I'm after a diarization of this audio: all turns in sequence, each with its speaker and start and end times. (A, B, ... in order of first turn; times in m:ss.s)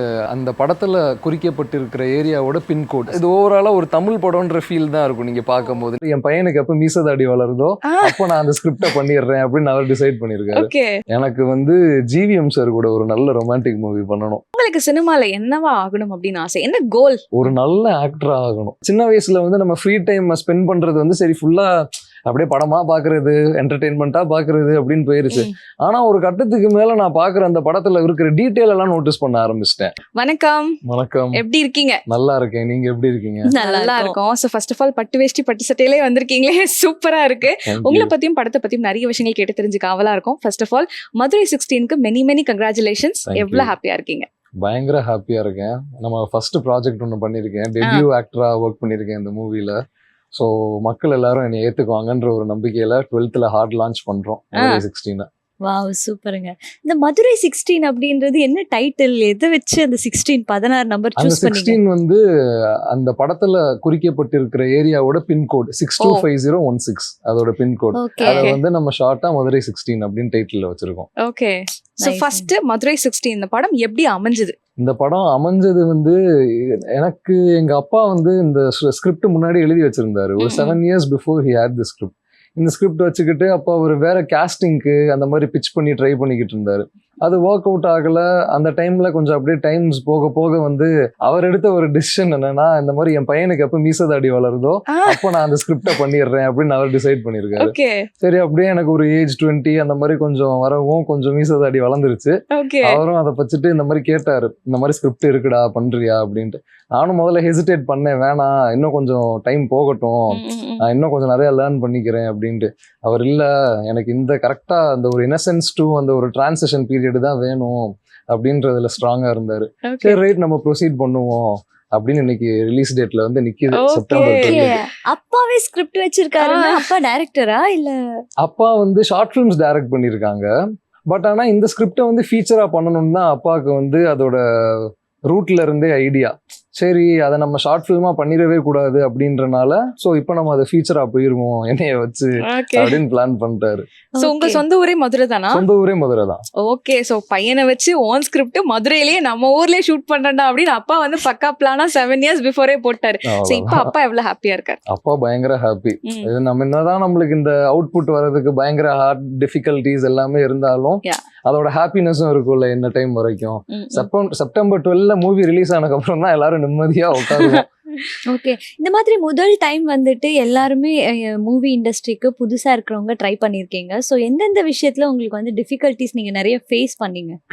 0:00.3-0:14.4 A
0:07.9-0:08.3 B
0:10.6-0:11.0 B
0:14.6-0:17.3 B
0:17.3-0:30.0 A
0:30.2-0:30.8 B
0:30.8-0:31.4 A
0:31.4-0:32.0 B
0:32.1-0:33.6 A
0:33.5-0:34.2 C
0:33.6-0:44.3 B
0:37.6-0:38.1 A
0:43.3-0:43.7 A
0:44.6-0:49.8 A
0:50.3-0:55.3 A
0:55.6-1:01.8 C
1:01.2-1:02.2 A
1:02.9-1:11.1 A
1:08.0-1:08.6 C
1:08.2-1:08.6 B
1:11.2-1:14.6 B
1:12.0-1:12.5 C
1:14.8-2:04.7 A
1:20.4-1:20.8 B
1:34.9-1:35.3 B
1:37.6-1:38.1 B
1:42.5-1:43.0 B
1:50.3-1:50.8 B
1:59.9-2:00.2 B
2:03.7-2:04.8 B
2:04.2-2:08.0 C
2:06.4-2:06.9 B
2:08.4-2:10.5 A
2:11.1-2:23.9 A
2:22.5-2:23.0 B
2:24.2-2:24.6 C
2:24.2-2:25.6 B
2:25.5-2:26.4 A
2:26.6-2:34.8 B
2:33.3-2:33.9 A
2:34.9-2:47.6 A
2:43.7-2:44.1 B
2:47.2-2:48.2 B
2:48.3-2:57.4 C